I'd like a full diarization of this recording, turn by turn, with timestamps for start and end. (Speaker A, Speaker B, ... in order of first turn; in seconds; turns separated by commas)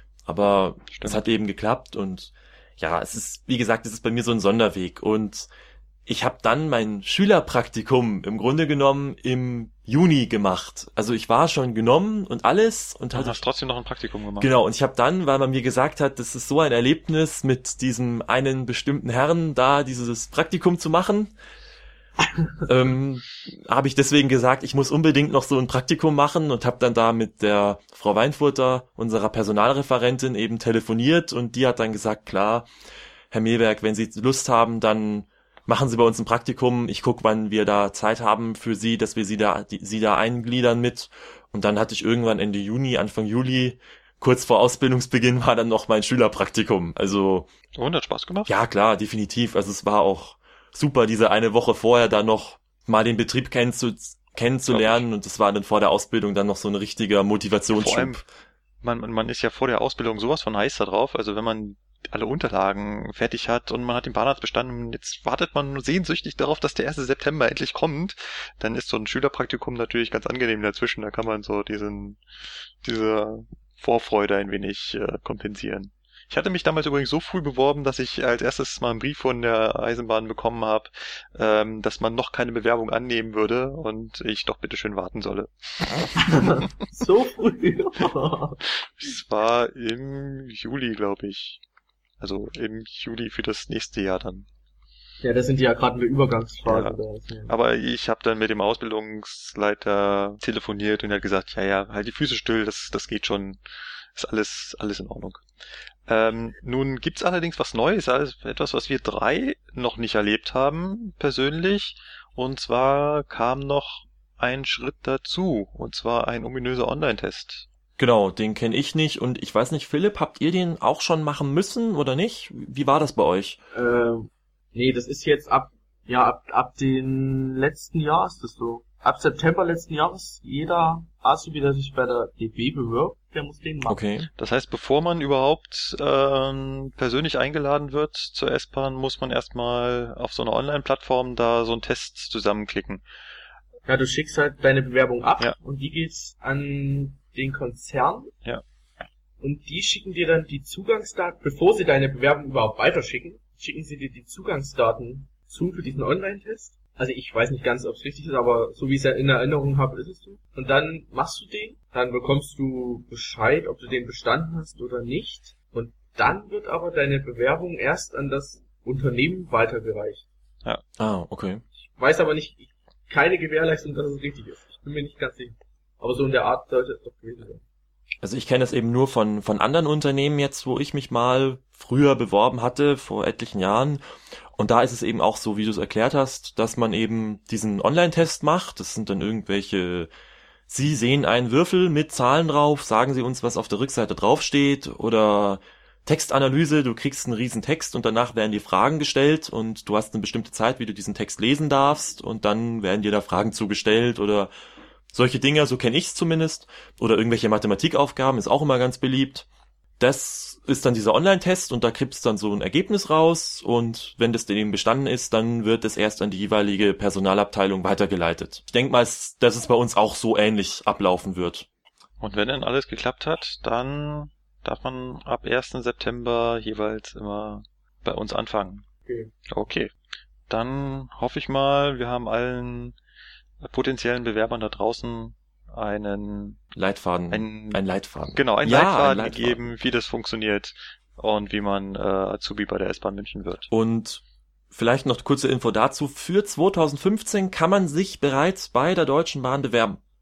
Speaker A: 0.3-5.5, Speaker B: 0.9-1.2, Speaker A: 6.1-13.4, Speaker B: 13.1-14.5, Speaker A: 14.4-21.3, Speaker A: 22.6-32.7, Speaker A: 33.3-47.5, Speaker B: 47.7-48.5, Speaker A: 48.5-58.2, Speaker B: 54.7-55.0, Speaker B: 57.7-58.2, Speaker B: 58.8-86.5, Speaker C: 86.2-88.6, Speaker B: 88.8-91.6, Speaker B: 92.2-94.5, Speaker C: 95.2-97.5, Speaker B: 96.6-97.0, Speaker B: 97.5-103.6, Speaker B: 104.1-105.4, Speaker B: 106.1-117.7, Speaker A: 118.0-123.6, Speaker C: 123.7-134.0, Speaker A: 133.9-134.3, Speaker B: 134.4-143.0, Speaker C: 143.9-148.3, Speaker C: 149.4-170.2, Speaker A: 171.0-171.6, Speaker C: 172.0-177.6, Speaker A: 178.2-184.0, Speaker A: 184.6-190.1, Speaker A: 190.7-204.5, Speaker A: 205.1-209.5, Speaker A: 210.0-221.7, Speaker B: 222.2-228.8, Speaker C: 229.1-229.3, Speaker B: 229.5-229.9, Speaker B: 230.5-233.0, Speaker B: 233.6-236.6, Speaker A: 236.8-239.7, Speaker B: 237.3-237.8, Speaker B: 238.3-243.7, Speaker A: 243.7-250.0